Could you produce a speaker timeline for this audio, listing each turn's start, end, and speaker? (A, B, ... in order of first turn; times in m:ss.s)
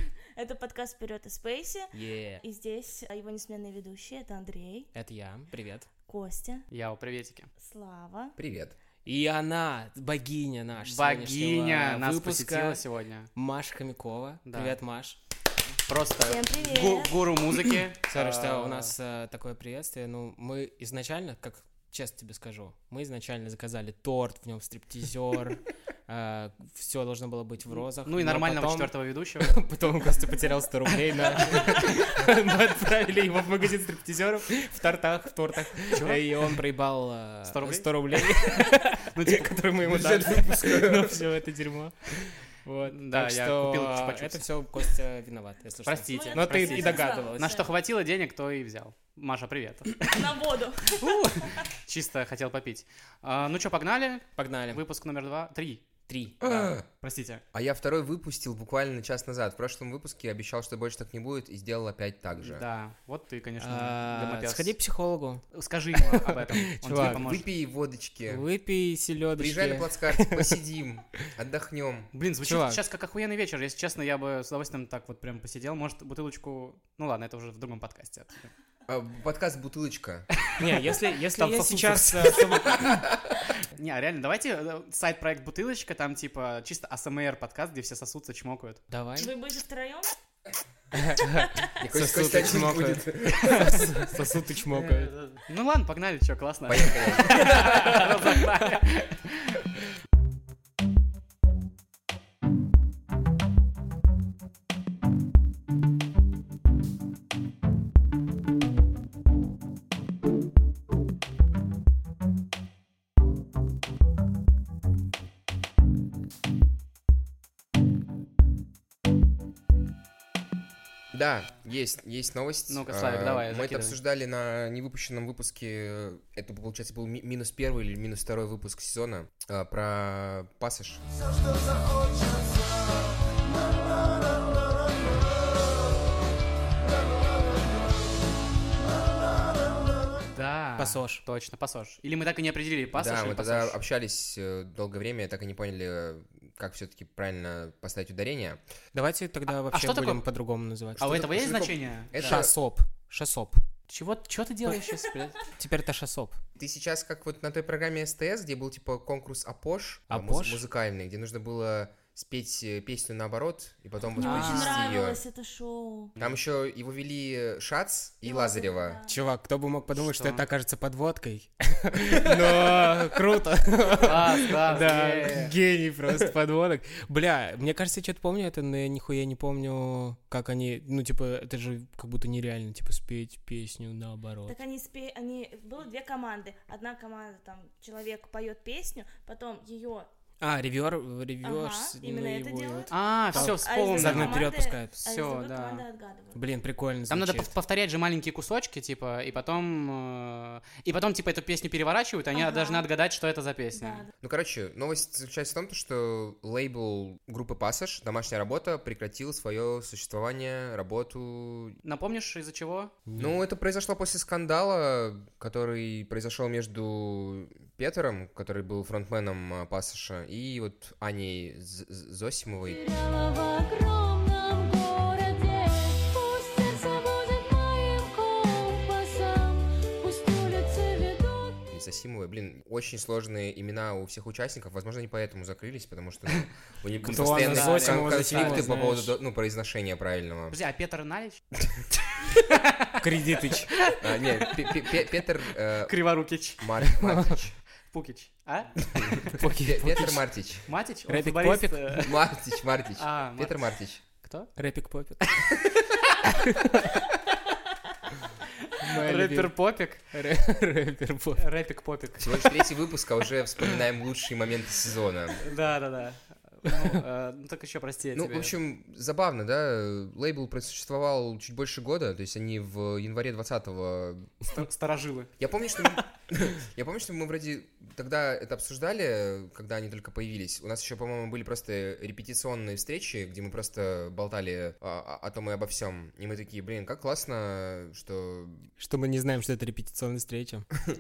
0:00.4-0:04.9 A
0:01.9-0:02.4 B
0:04.9-0:05.9 B
0:06.1-0:06.6 A
0:06.7-0:07.5 C
0:07.6-0:08.4 A
0:08.4-0:08.8 D
0:09.0-0:12.8 B
0:10.8-0:13.3 C
0:13.4-0:15.2 B
0:14.5-0:14.8 C
0:15.9-0:18.9 C
0:16.2-0:17.2 A
0:18.1-0:47.6 B
0:28.0-0:29.6 C
0:30.9-0:31.7 C
0:35.9-0:36.6 C
0:37.4-0:39.6 C
0:39.8-0:41.2 D
0:42.9-0:44.5 C
0:45.9-0:50.0 C
0:46.1-0:47.7 A
0:50.1-0:51.2 A
0:51.0-0:55.9 C
0:54.4-0:54.8 B
0:56.1-0:56.4 B
0:56.4-0:56.9 D
0:56.4-0:57.4 C
0:57.5-1:02.6 D
1:02.4-1:04.7 C
1:03.6-1:05.4 B
1:05.5-1:07.5 C
1:06.0-1:07.3 B
1:07.0-1:08.4 D
1:08.3-1:10.6 B
1:09.4-1:12.1 D
1:12.1-1:18.5 C
1:12.4-1:12.8 B
1:18.9-1:20.3 D
1:20.6-1:23.1 B
1:21.3-1:22.9 C
1:22.9-1:23.2 D
1:23.8-1:28.8 C
1:28.9-1:29.3 B
1:29.2-1:30.1 A
1:31.0-1:35.1 B
1:31.3-1:31.6 A
1:31.8-1:34.2 D
1:34.7-1:35.1 D
1:35.4-1:39.6 C
1:36.7-1:38.1 D
1:37.4-1:38.1 B
2:01.1-2:11.0 D
2:02.7-2:04.0 C
2:20.4-2:23.8 C
2:20.8-2:21.2 B
2:22.9-2:28.6 D
2:28.9-2:31.2 B
2:29.7-2:30.2 C
2:31.0-2:32.5 C
2:31.0-2:32.5 D
2:32.2-2:33.6 B
2:33.9-2:35.4 C
2:34.7-2:36.4 B
2:36.6-2:45.2 D
2:40.1-2:40.6 B
2:44.1-2:46.1 A
2:44.2-2:45.0 C
2:46.2-2:49.0 D
2:48.2-2:49.2 A
2:49.1-3:04.6 B
2:49.9-2:50.4 C
2:54.0-2:55.5 C
3:04.5-3:10.1 A
3:10.4-3:15.0 B
3:11.4-3:16.4 A
3:12.9-3:14.5 C
3:15.0-3:15.8 C
3:16.3-3:17.5 B
3:17.1-3:24.1 C
3:22.3-3:22.9 A
3:23.7-3:24.1 A
3:24.2-3:31.8 D
3:31.8-3:32.9 C
3:33.1-3:33.4 B
3:33.2-3:42.8 D
3:42.6-3:51.7 E
3:51.7-4:00.6 D
3:57.0-3:59.1 B
3:57.1-3:58.9 C
4:00.5-4:01.4 C
4:02.5-4:03.0 C
4:03.0-4:03.7 B
4:03.8-4:04.5 C
4:03.9-4:06.0 D
4:05.9-4:06.7 C
4:06.6-4:07.6 D
4:06.8-4:07.4 B
4:07.9-4:09.3 C
4:08.9-4:10.7 D
4:09.4-4:10.3 B
4:10.7-4:12.2 C
4:11.1-4:12.1 B
4:12.0-4:14.0 D
4:13.0-4:14.5 C
4:14.6-4:15.3 B
4:16.3-4:17.0 B
4:18.7-4:20.0 C
4:18.8-4:21.4 B
4:21.4-4:22.4 C
4:22.2-4:25.5 D
4:25.4-4:28.6 C
4:28.2-4:34.4 D
4:34.5-4:35.3 C
4:35.4-4:48.7 D
4:48.8-4:50.7 B